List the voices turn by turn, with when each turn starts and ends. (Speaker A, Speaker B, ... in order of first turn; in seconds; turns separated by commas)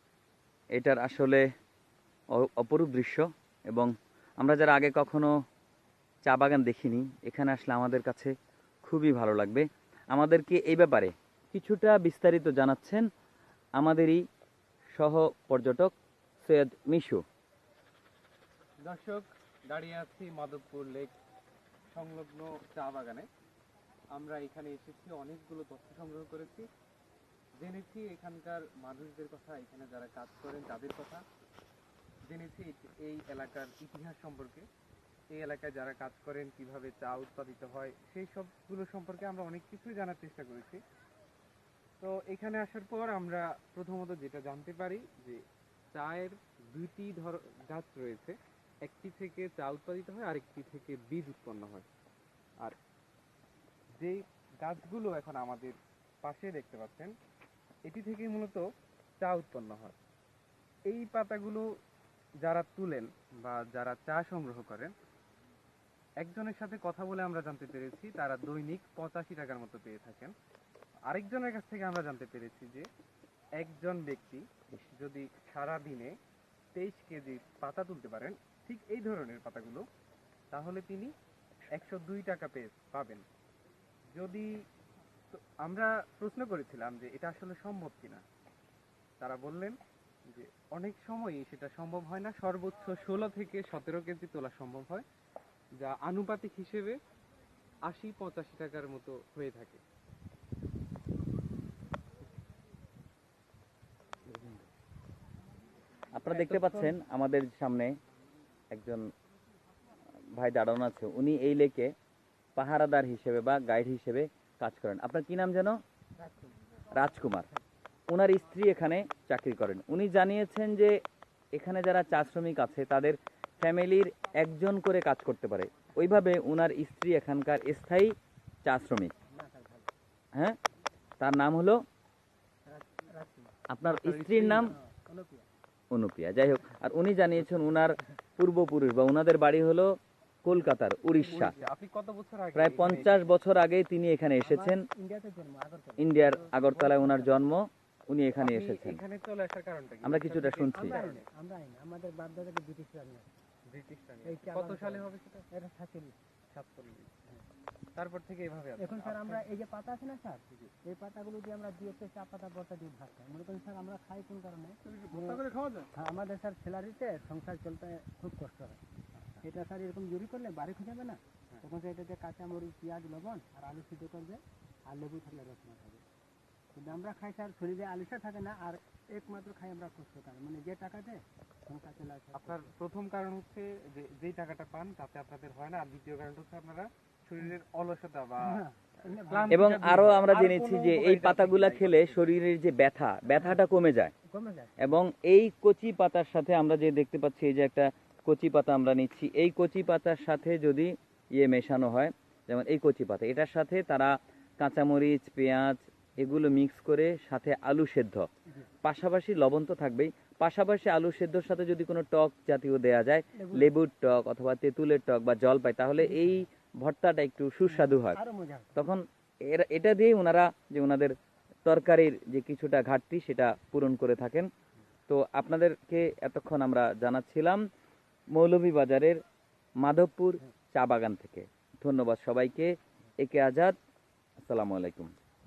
Speaker A: 0.7-1.4, Speaker A: 2.3-5.3, Speaker A: 6.2-8.3, Speaker A: 8.8-13.1, Speaker A: 13.8-14.2, Speaker A: 14.9-17.2, Speaker B: 18.8-21.1, Speaker B: 21.9-23.3, Speaker B: 24.1-26.7, Speaker B: 27.6-31.2, Speaker B: 32.2-34.6, Speaker B: 35.3-40.8, Speaker B: 42.0-51.9, Speaker B: 54.0-57.1, Speaker B: 57.8-58.6, Speaker B: 59.2-60.0, Speaker B: 60.9-61.7, Speaker B: 62.4-64.9, Speaker B: 66.2-70.3, Speaker B: 71.0-72.9, Speaker B: 73.6-76.1, Speaker B: 76.7-79.8, Speaker B: 80.5-81.1, Speaker B: 81.8-83.2, Speaker B: 84.1-84.5, Speaker B: 85.3-88.2, Speaker B: 89.2-89.8, Speaker B: 90.3-95.0, Speaker B: 95.8-97.0, Speaker B: 97.8-99.8, Speaker A: 106.1-107.9, Speaker B: 106.3-107.0, Speaker A: 108.7-109.1, Speaker A: 110.3-111.9, Speaker A: 112.5-115.8, Speaker C: 116.2-116.6, Speaker A: 116.9-117.5, Speaker C: 117.3-117.6, Speaker A: 118.1-121.0, Speaker A: 121.5-128.1, Speaker A: 128.6-129.1, Speaker C: 129.3-129.9, Speaker A: 131.2-131.8, Speaker C: 132.7-133.5, Speaker A: 133.7-134.7, Speaker B: 133.8-134.7, Speaker C: 134.5-135.5, Speaker A: 135.9-141.5, Speaker C: 141.1-141.7, Speaker B: 141.2-143.3, Speaker A: 142.5-144.8, Speaker C: 144.4-147.1, Speaker A: 146.0-149.0, Speaker B: 146.6-147.1, Speaker B: 148.4-151.3, Speaker A: 150.0-151.0, Speaker C: 150.7-153.4, Speaker B: 153.7-155.4, Speaker C: 154.2-156.2, Speaker B: 156.5-157.1, Speaker B: 157.9-159.4, Speaker C: 158.8-168.8, Speaker B: 164.8-165.9, Speaker B: 169.2-169.4, Speaker C: 169.4-176.0, Speaker C: 176.7-182.7, Speaker B: 182.3-192.3, Speaker C: 188.4-189.7, Speaker A: 189.5-194.1, Speaker C: 194.3-194.9, Speaker A: 194.8-208.2, Speaker A: 208.8-218.2, Speaker C: 213.3-213.7, Speaker C: 216.0-216.4, Speaker C: 217.6-218.8, Speaker A: 218.8-221.1, Speaker A: 221.7-224.5, Speaker A: 225.1-227.6, Speaker A: 228.3-229.2, Speaker A: 229.8-233.7, Speaker A: 234.4-235.1